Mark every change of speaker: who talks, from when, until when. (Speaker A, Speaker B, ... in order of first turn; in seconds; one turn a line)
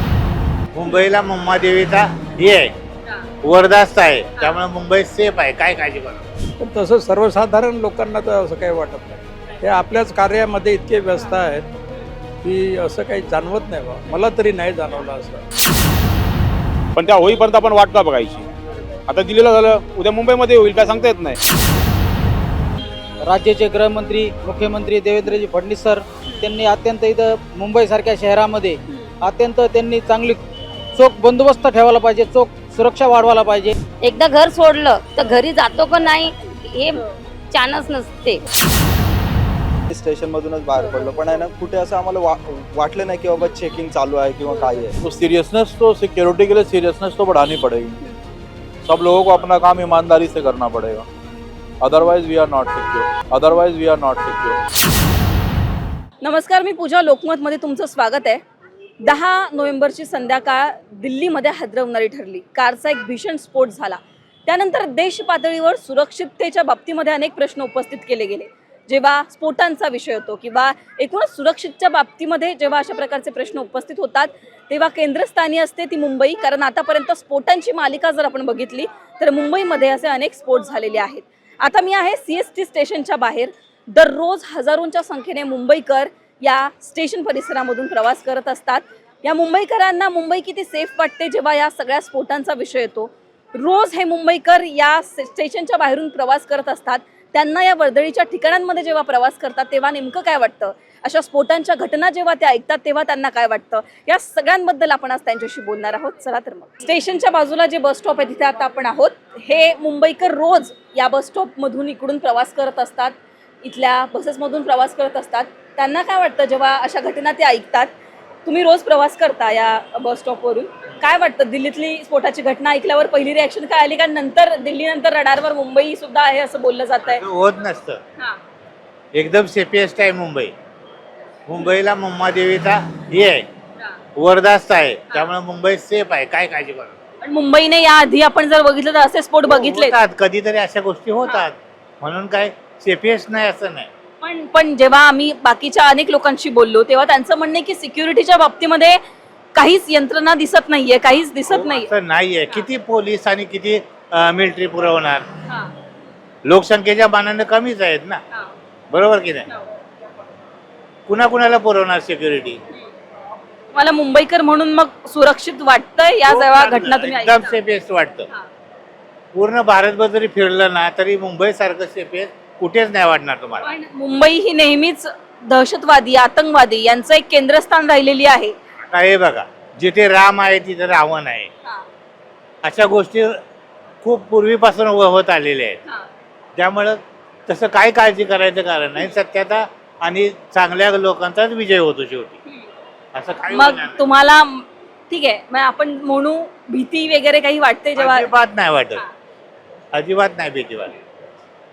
Speaker A: 0.7-2.7
Speaker A: 3.4-6.3
Speaker B: 6.6-11.7
Speaker B: 12.4-15.4
Speaker C: 16.9-18.5
Speaker C: 19.1-21.4
Speaker D: 23.2-30.4
Speaker D: 30.9-33.8
Speaker E: 34.0-38.4
Speaker F: 39.9-44.9
Speaker G: 40.7-41.2
Speaker G: 44.5-44.8
Speaker H: 45.0-48.0
Speaker H: 48.8-51.0
Speaker H: 51.8-54.6
Speaker G: 56.2-58.4
Speaker G: 59.0-117.9
Speaker G: 118.4-127.2
Speaker A: 127.1-128.0
Speaker A: 129.1-130.5
Speaker A: 131.5-133.4
Speaker A: 134.2-136.9
Speaker G: 137.2-140.0
Speaker A: 139.4-143.9
Speaker G: 144.2-149.0
Speaker G: 149.5-151.9
Speaker A: 151.5-155.3
Speaker G: 155.5-155.7
Speaker A: 156.4-158.2
Speaker A: 158.9-159.4
Speaker A: 161.1-162.6
Speaker G: 163.7-167.6
Speaker A: 166.3-168.3
Speaker A: 169.3-173.6
Speaker G: 173.6-178.5
Speaker A: 178.9-181.5
Speaker A: 182.6-183.4
Speaker A: 184.0-185.8
Speaker A: 186.6-192.3
Speaker A: 193.1-194.0
Speaker G: 193.5-198.3
Speaker A: 197.9-199.0
Speaker A: 199.9-200.9